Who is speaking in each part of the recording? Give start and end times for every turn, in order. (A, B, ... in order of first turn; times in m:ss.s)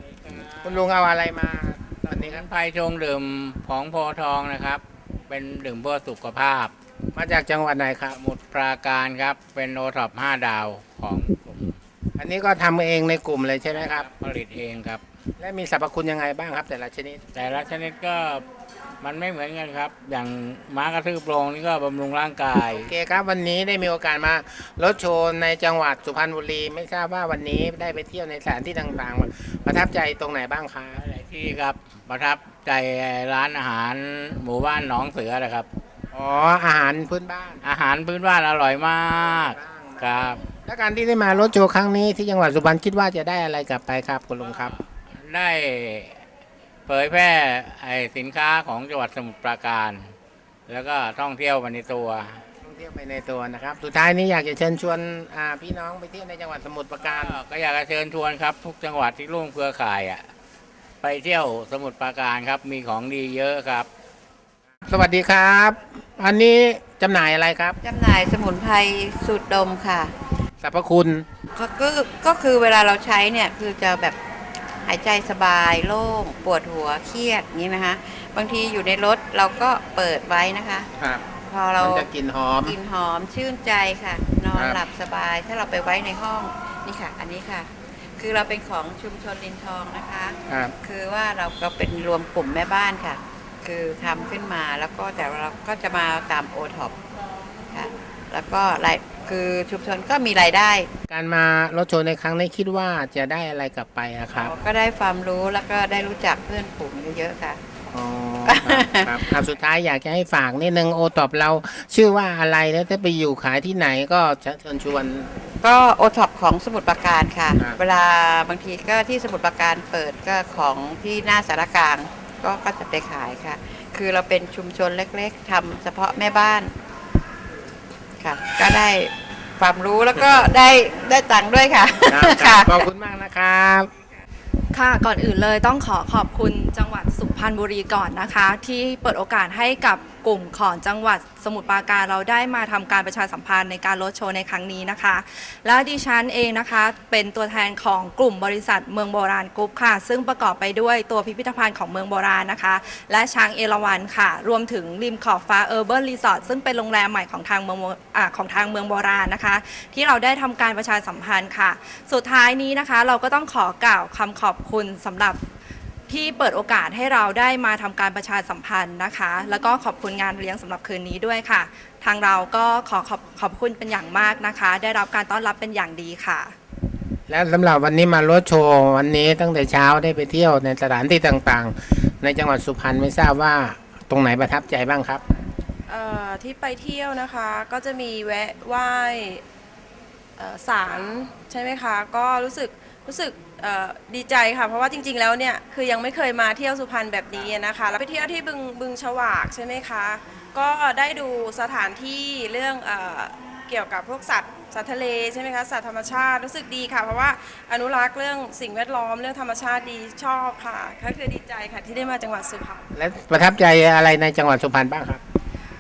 0:00.3-0:00.9 A
0:00.6-0:02.4 B
0:02.1-0:06.7 A
0:07.2-0:08.2 B
0:08.1-0:11.8 A
0:12.2-0:14.1 B
0:13.7-0:15.0 A
0:15.4-0:17.2 B
0:17.3-0:18.4 A
0:19.0-0:22.9 A
0:22.9-0:31.0 B
0:31.0-0:35.7 A
0:36.1-0:37.6 B
0:37.6-0:40.4 A
0:39.2-0:44.8 B
0:44.4-0:46.2 A
0:46.9-0:50.1 A
0:50.7-0:52.4 A
0:52.6-0:57.4 B
0:57.1-1:00.3 A
1:01.0-1:03.9 A
1:04.9-1:07.8 B
1:07.8-1:10.1 C
1:10.6-1:11.2 B
1:11.5-1:14.2 C
1:14.8-1:20.9 C
1:21.5-1:22.1 C
1:21.8-1:22.8 B
1:22.6-1:37.0 C
1:24.5-1:24.8 B
1:37.7-1:40.9 C
1:41.1-1:44.5 B
1:44.3-1:47.6 C
1:47.9-1:55.3 B
1:48.4-1:49.3 C
1:55.6-2:06.7 C
2:08.2-2:12.9 C
2:12.1-2:13.9 B
2:14.7-2:45.4 D
2:46.1-2:56.6 D
2:57.3-3:05.2 B
3:05.9-3:09.4 E
3:10.4-3:32.8 E
3:33.0-3:35.2 B